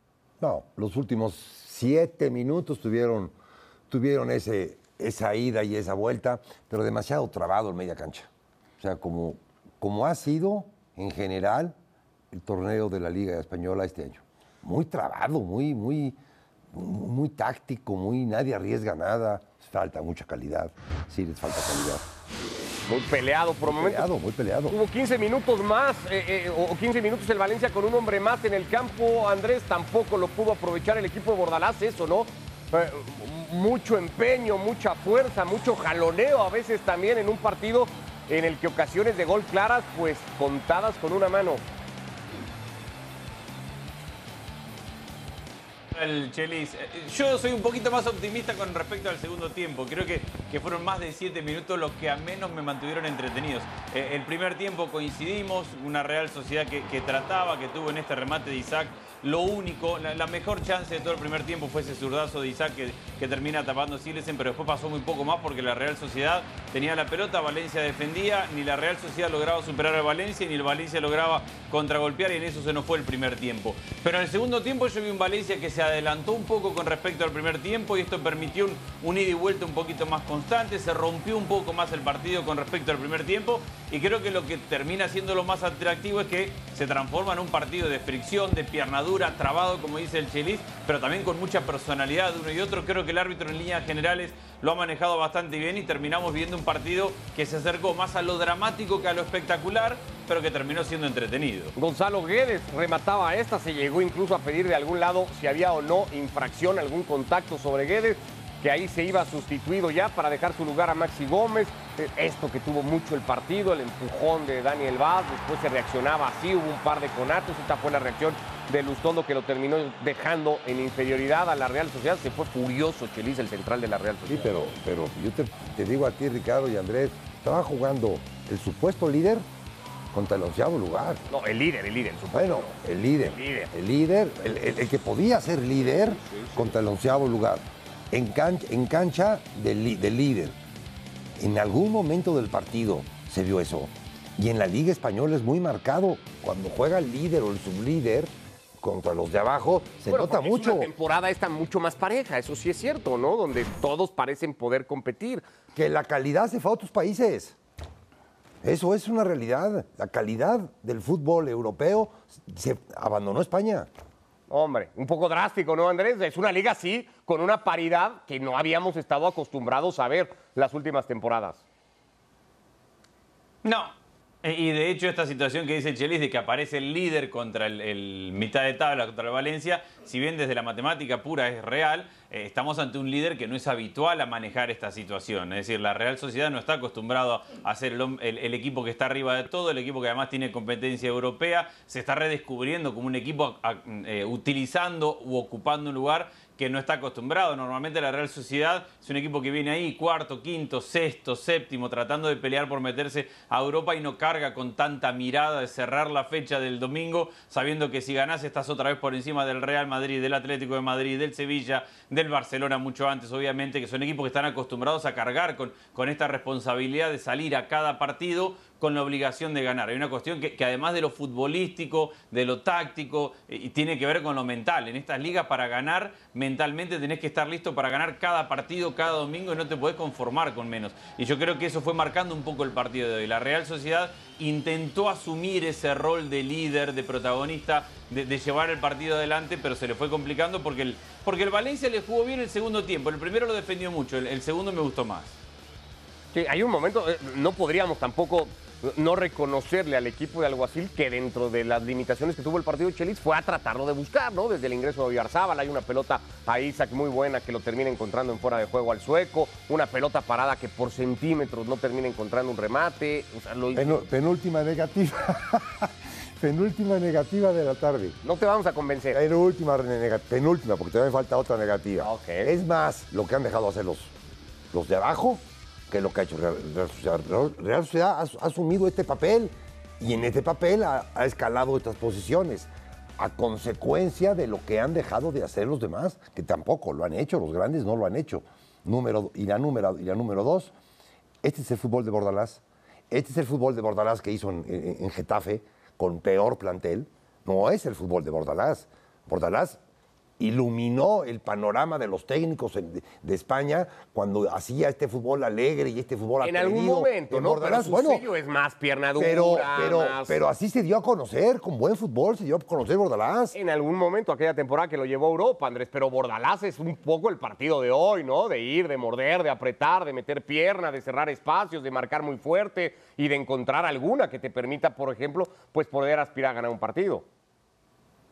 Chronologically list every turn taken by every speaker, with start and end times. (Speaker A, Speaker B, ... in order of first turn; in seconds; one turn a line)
Speaker A: 0.4-3.3
Speaker A: 3.9-11.7
Speaker A: 12.3-16.2
Speaker A: 16.7-22.0
Speaker B: 22.9-24.1
Speaker A: 23.6-24.8
Speaker B: 24.7-41.6
Speaker C: 45.9-101.7
Speaker B: 101.8-124.5
Speaker A: 124.3-129.5
Speaker A: 130.1-131.2
Speaker B: 131.3-133.7
Speaker A: 132.3-140.6
Speaker A: 141.4-148.3
Speaker A: 148.8-150.9
Speaker B: 150.1-155.4
Speaker A: 155.7-157.6
Speaker A: 158.6-163.9
Speaker B: 164.5-171.6
Speaker C: 173.7-245.4
Speaker B: 246.3-264.0
Speaker A: 263.7-268.2
Speaker B: 268.2-269.2
Speaker A: 269.1-274.1
Speaker B: 272.0-272.5
Speaker A: 274.7-290.7
Speaker A: 291.4-299.8
Speaker A: 300.4-308.3
Speaker B: 306.4-310.4
Speaker A: 309.2-313.6
Speaker B: 313.6-327.2